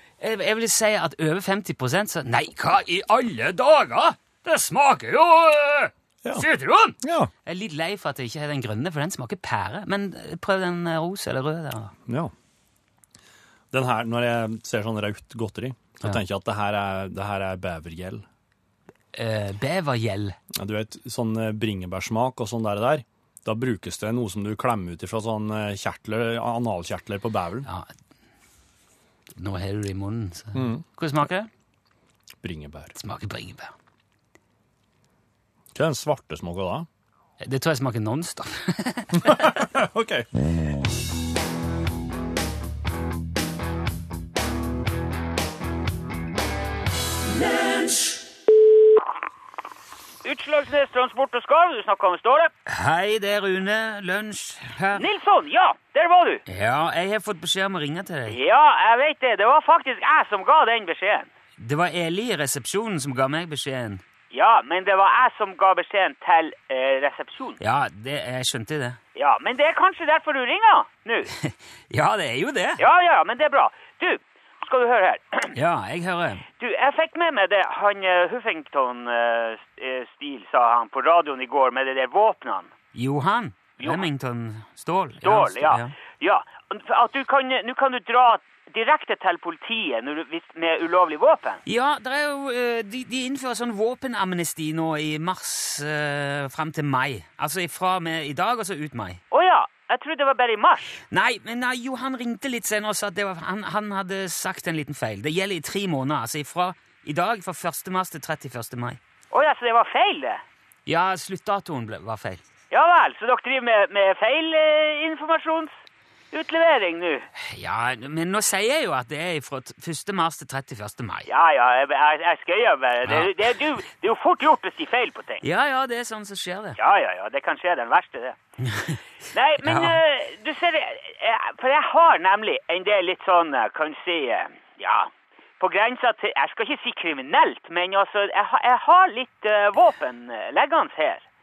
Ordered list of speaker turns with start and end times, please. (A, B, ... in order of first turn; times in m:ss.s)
0:00.2-0:11.9 A
0:07.0-0:07.3 B
0:12.0-0:12.3 B
0:13.7-0:18.2 B
0:19.1-0:20.4 A
0:20.5-0:27.7 B
0:29.4-0:31.5 A
0:30.5-0:30.8 B
0:32.4-0:32.9 B
0:32.9-0:33.7 A
0:35.7-0:36.9 B
0:37.4-0:39.6 A
0:39.1-0:40.4 B
0:50.2-0:52.5 C
0:52.6-0:55.0 A
0:54.9-0:56.4 C
0:56.5-0:58.4 A
0:58.3-1:01.3 C
1:01.6-1:04.0 A
1:04.3-1:07.6 C
1:07.6-1:09.0 A
1:09.1-1:11.3 C
1:11.4-1:12.8 A
1:12.8-1:15.5 C
1:15.5-1:16.4 A
1:16.6-1:22.7 C
1:22.9-1:25.9 A
1:23.8-1:24.0 C
1:25.2-1:31.6 C
1:31.6-1:39.2 A
1:39.3-1:41.0 C
1:41.1-1:49.0 A
1:49.3-1:50.4 C
1:50.8-1:52.4 A
1:52.7-1:55.7 C
1:56.3-1:57.3 C
1:57.4-2:01.3 A
2:01.3-2:05.4 C
2:03.0-2:03.3 A
2:05.4-2:06.8 A
2:06.8-2:08.4 C
2:08.6-2:09.0 A
2:09.3-2:21.2 C
2:09.6-2:10.0 A